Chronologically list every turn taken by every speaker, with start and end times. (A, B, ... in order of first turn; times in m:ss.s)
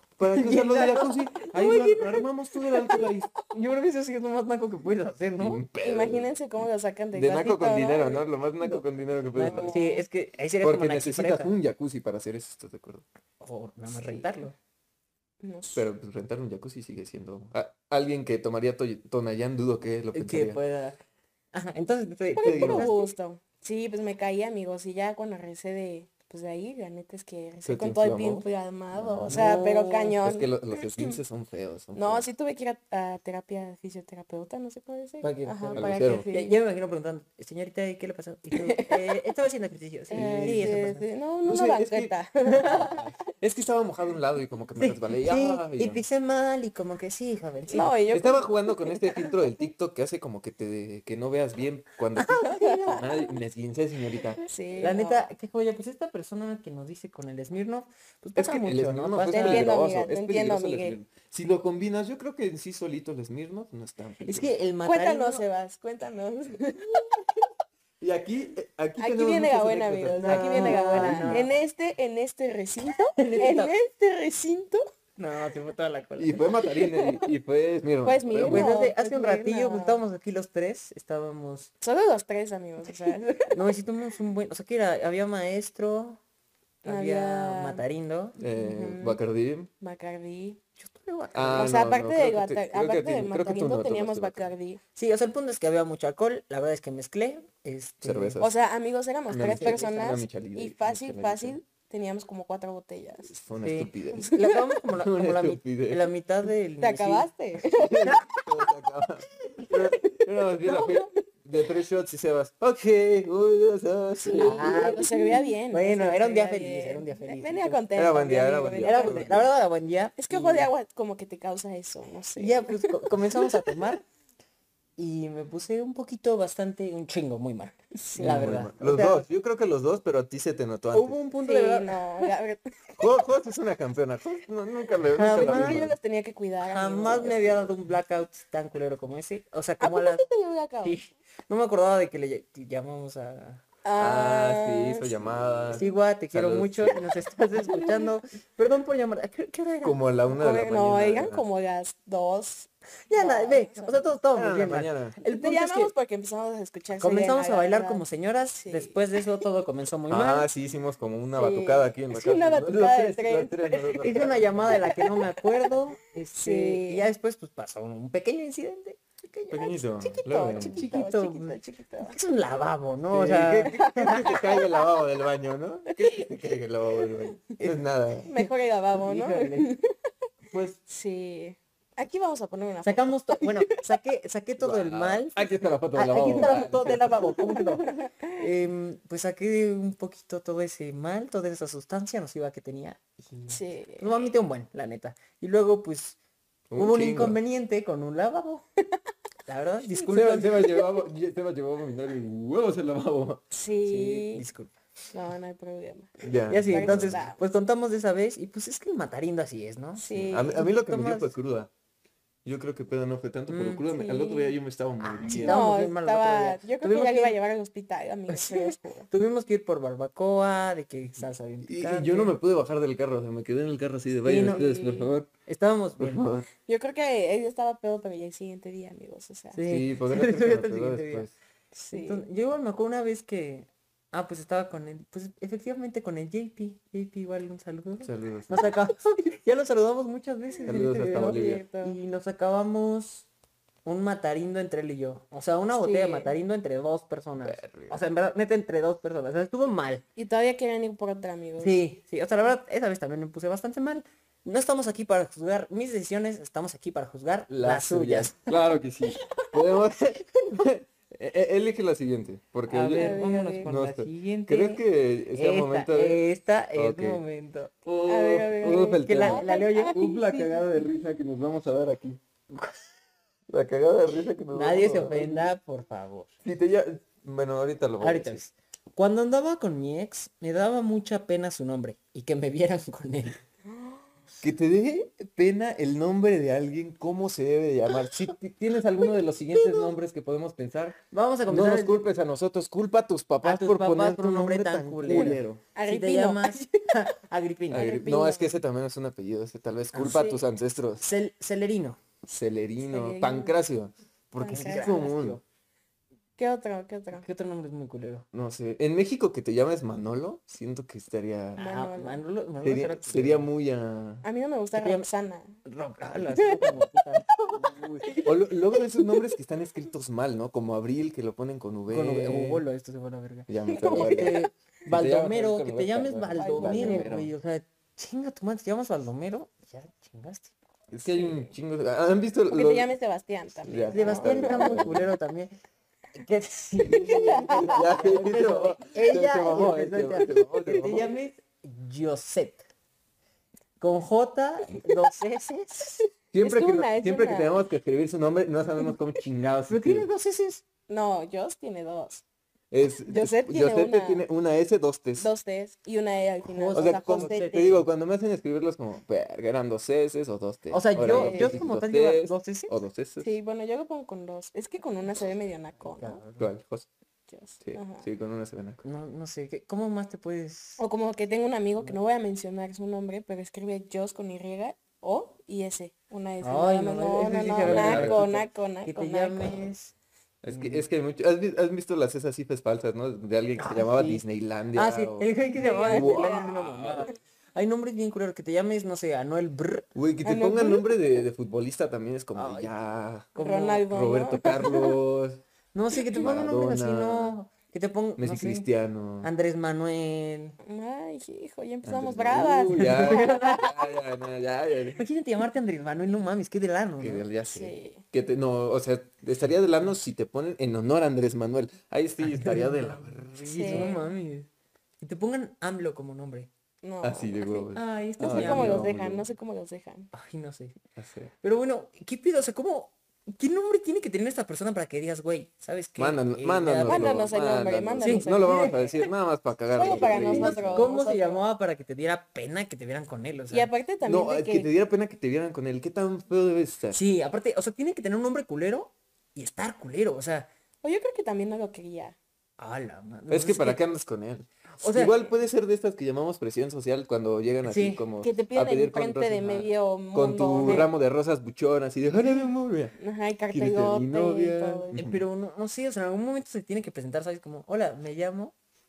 0:00.2-0:03.3 A
0:00.2-0:02.3 B
0:03.4-0:05.6 B
0:05.4-0:06.3 A
0:05.8-0:08.3 C
0:07.1-0:09.7 A
0:09.3-0:11.5 B
0:09.4-0:10.0 C
0:10.6-0:13.0 A
0:13.4-0:14.5 B
0:15.4-0:15.8 C
0:15.7-0:20.6 A
0:20.1-0:21.0 B
0:21.5-0:23.0 B
0:22.4-0:22.9 A
0:22.4-0:31.2 C
0:27.6-0:29.6 A
0:29.3-0:30.2 B
0:30.2-0:32.3 A
0:31.9-0:36.5 C
0:35.2-0:41.0 B
0:35.7-0:36.3 A
0:38.5-0:39.1 C
0:40.1-0:43.0 C
0:40.1-0:40.8 A
0:41.4-0:46.0 A
0:42.5-0:42.8 B
0:44.8-0:48.0 B
0:47.7-0:49.3 C
0:48.1-0:54.4 A
0:52.3-0:53.0 C
0:54.4-0:55.3 C
0:54.8-0:59.7 B
0:58.4-1:04.5 A
0:59.3-1:01.0 C
1:04.2-1:05.4 B
1:04.8-1:07.1 C
1:08.0-1:11.5 A
1:09.0-1:14.8 C
1:10.2-1:11.5 B
1:13.1-1:13.7 B
1:15.2-1:16.4 B
1:16.2-1:18.8 A
1:16.7-1:17.2 C
1:18.0-1:20.0 C
1:18.4-1:21.7 B
1:21.8-1:23.6 C
1:23.4-1:26.2 B
1:26.8-1:28.4 B
1:26.8-1:27.8 C
1:28.4-1:29.7 A
1:28.4-1:29.2 C
1:29.8-1:30.6 C
1:30.8-1:31.7 B
1:31.3-1:34.5 A
1:31.5-1:34.8 C
1:35.0-1:38.4 B
1:38.0-1:38.5 A
1:38.4-1:43.3 C
1:39.3-1:41.6 A
1:39.6-1:39.8 B
1:43.3-1:44.3 A
1:43.6-1:47.3 B
1:44.2-1:44.7 C
1:45.0-1:46.0 A
1:46.8-1:48.5 C
1:47.7-1:55.0 A
1:49.7-1:51.1 C
1:54.2-1:59.4 C
1:54.3-1:57.8 B
1:57.9-1:59.5 A
1:58.8-2:00.7 B
2:00.2-2:03.7 C
2:02.4-2:04.0 B
2:05.0-2:09.2 B
2:07.9-2:08.6 C
2:08.2-2:11.2 A
2:10.9-2:12.3 B
2:11.4-2:12.6 C
2:13.0-2:15.9 A
2:15.1-2:15.9 B
2:15.3-2:17.7 C
2:16.6-2:20.2 B
2:19.8-2:21.0 C
2:20.8-2:23.6 B
2:23.8-2:25.8 C
2:24.0-2:27.0 A
2:25.7-2:30.0 B
2:27.7-2:28.0 C
2:29.8-2:31.4 A
2:30.3-2:34.0 C
2:33.1-2:35.9 B
2:34.3-2:35.2 A
2:35.2-2:38.0 C
2:37.0-2:40.5 B
2:38.6-2:39.2 C
2:40.1-2:45.0 A
2:41.3-2:45.7 C
2:44.0-2:54.4 B
2:46.4-2:47.1 C
2:49.5-2:50.8 A
2:50.1-2:52.2 C
2:53.1-2:58.3 A
2:53.7-2:54.8 C
2:58.3-2:59.9 C
2:58.3-2:59.7 B
3:00.5-3:00.8 B
3:00.8-3:03.8 C
3:02.8-3:05.4 B
3:04.6-3:07.2 A
3:05.9-3:16.2 B
3:06.4-3:06.7 C
3:07.4-3:08.4 C
3:13.5-3:14.2 C
3:16.7-3:17.4 A
3:16.7-3:18.6 B
3:19.4-3:20.8 B
3:20.1-3:23.4 A
3:23.5-3:24.4 C
3:23.8-3:24.7 B
3:25.1-3:27.4 C
3:26.2-3:27.2 A
3:26.5-3:31.3 B
3:30.0-3:30.7 C
3:30.1-3:31.7 A
3:32.4-3:35.7 A
3:33.5-3:33.9 B
3:33.9-3:34.5 C
3:35.0-3:37.4 B
3:35.3-3:39.1 C
3:38.3-3:42.3 B
3:41.6-3:45.3 A
3:44.2-3:46.3 B
3:46.0-3:46.5 A
3:46.7-3:49.6 C
3:49.5-4:03.3 B
3:49.6-3:51.3 A
3:51.9-3:52.2 C
3:58.0-3:58.7 A
4:00.6-4:01.6 A
4:00.7-4:02.0 C
4:03.8-4:10.0 B
4:05.8-4:06.3 C
4:07.4-4:08.0 A
4:10.2-4:11.8 C
4:11.6-4:18.5 B
4:17.5-4:26.2 A
4:22.7-4:27.7 B
4:22.9-4:23.7 C
4:26.7-4:27.2 A
4:27.8-4:32.2 A
4:28.1-4:30.6 C
4:28.7-4:30.1 B
4:32.5-4:32.8 B
4:33.5-4:35.5 A
4:34.5-4:36.3 B
4:36.4-4:38.4 A
4:38.0-4:43.4 B
4:44.4-4:55.6 A
4:49.6-4:49.9 B
4:51.1-4:52.0 B
4:53.4-4:58.5 B
4:55.1-4:56.9 C
4:57.7-5:01.0 A
4:59.9-5:00.4 B
5:00.1-5:00.3 C
5:01.0-5:02.0 B
5:02.2-5:05.4 A
5:02.9-5:03.5 C
5:04.4-5:05.0 C
5:04.4-5:05.4 B
5:06.4-5:07.2 C
5:07.2-5:08.2 B
5:08.3-5:11.6 A
5:11.6-5:12.2 C
5:11.6-5:13.5 B
5:12.6-5:14.2 A
5:14.2-5:15.6 C
5:14.8-5:15.1 B
5:15.6-5:18.2 B
5:16.2-5:19.2 C
5:18.1-5:22.6 A
5:21.9-5:30.5 B
5:23.5-5:27.3 A
5:23.6-5:24.4 C
5:26.4-5:27.1 C
5:30.9-5:32.9 A
5:31.1-5:31.4 B
5:32.5-5:34.8 C
5:33.6-5:35.1 A
5:33.9-5:35.5 B
5:36.1-5:42.6 B
5:36.8-5:37.8 C
5:36.8-5:41.1 A
5:43.8-5:46.0 B
5:46.0-5:47.6 C
5:46.3-5:50.1 A
5:49.7-5:50.6 B
5:50.9-5:52.2 C
5:52.7-5:55.3 A
5:53.0-5:54.2 C
5:55.2-5:57.8 C
5:56.5-5:57.8 B
5:56.7-6:03.3 A
6:00.7-6:02.8 B
6:01.1-6:01.6 C
6:03.2-6:06.2 C
6:05.8-6:06.5 B
6:06.4-6:06.9 A
6:07.3-6:08.0 C
6:07.6-6:08.8 A
6:08.8-6:10.8 B
6:10.8-6:19.6 C
6:16.4-6:19.9 B
6:17.6-6:18.2 A
6:20.4-6:26.5 A
6:20.5-6:20.8 B
6:23.6-6:29.9 B
6:25.5-6:27.1 C
6:29.9-6:35.4 A
6:30.2-6:31.0 C
6:32.3-6:32.7 B
6:33.3-6:33.9 B
6:33.4-6:35.0 C
6:35.7-6:38.7 B
6:36.1-6:37.3 A
6:38.2-6:39.3 A
6:39.2-6:40.6 B
6:40.6-6:43.7 C
6:41.8-6:45.0 A
6:42.7-6:43.7 B
6:45.0-6:47.3 B
6:47.0-6:54.0 A
6:47.4-6:48.0 C
6:52.2-6:54.5 B
6:53.5-6:53.9 C
6:55.0-6:56.5 B
6:56.8-7:00.1 C
6:57.0-6:59.2 A
6:57.7-6:58.9 B
7:00.1-7:00.8 B
7:01.0-7:01.3 A
7:01.4-7:07.3 B
7:06.0-7:10.9 A
7:06.8-7:09.1 C
7:08.0-7:08.8 B
7:09.8-7:11.4 C
7:09.8-7:13.7 B
7:13.5-7:14.7 C
7:14.0-7:17.0 A
7:16.9-7:20.5 B
7:20.8-7:22.2 C
7:22.6-7:23.8 B
7:23.3-7:32.9 A
7:24.8-7:25.2 B
7:27.6-7:28.0 B
7:28.2-7:30.9 C
7:30.6-7:30.9 B
7:33.0-7:35.0 C
7:33.5-7:35.2 A
7:35.0-7:38.5 B